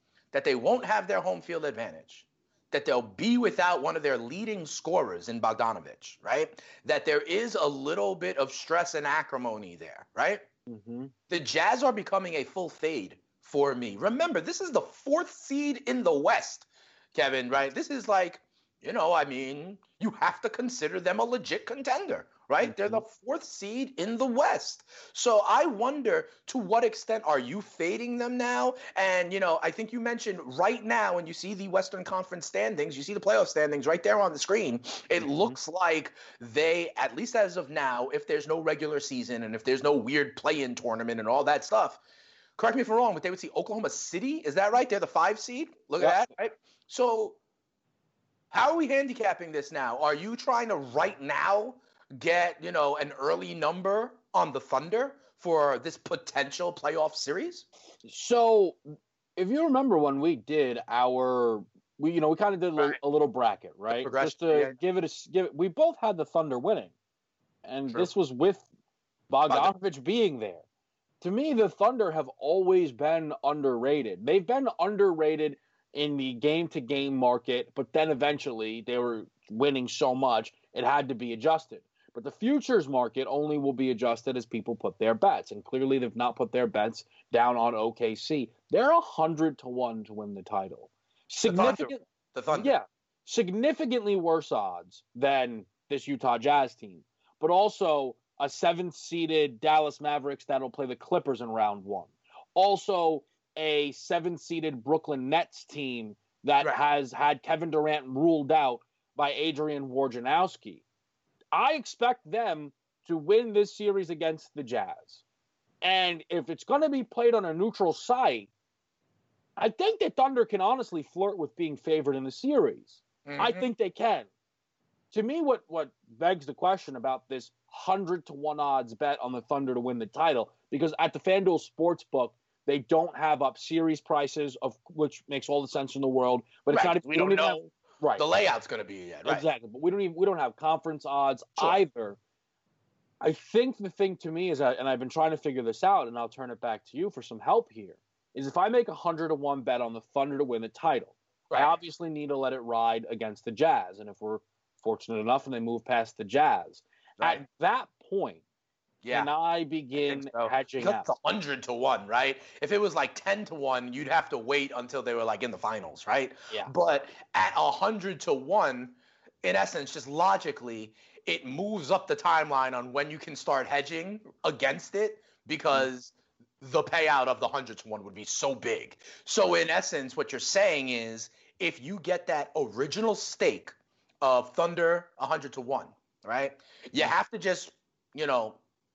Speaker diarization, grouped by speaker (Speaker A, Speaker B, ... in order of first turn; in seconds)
Speaker A: 0.3-10.5, 11.3-42.0, 42.6-47.4, 48.5-57.7, 63.9-64.8, 69.5-69.8, 91.5-92.7, 123.2-123.7, 136.7-139.4, 151.5-151.8, 159.0-159.3, 159.9-188.6
Speaker B: 10.7-11.1, 22.6-23.0, 35.2-35.6, 46.0-46.2, 58.0-58.8, 59.4-66.9, 67.6-68.7, 69.3-70.6, 71.2-92.0, 92.5-110.8, 111.5-115.2, 115.8-118.5, 119.6-124.3, 125.1-138.2, 139.2-142.2, 143.2-158.4, 159.1-161.1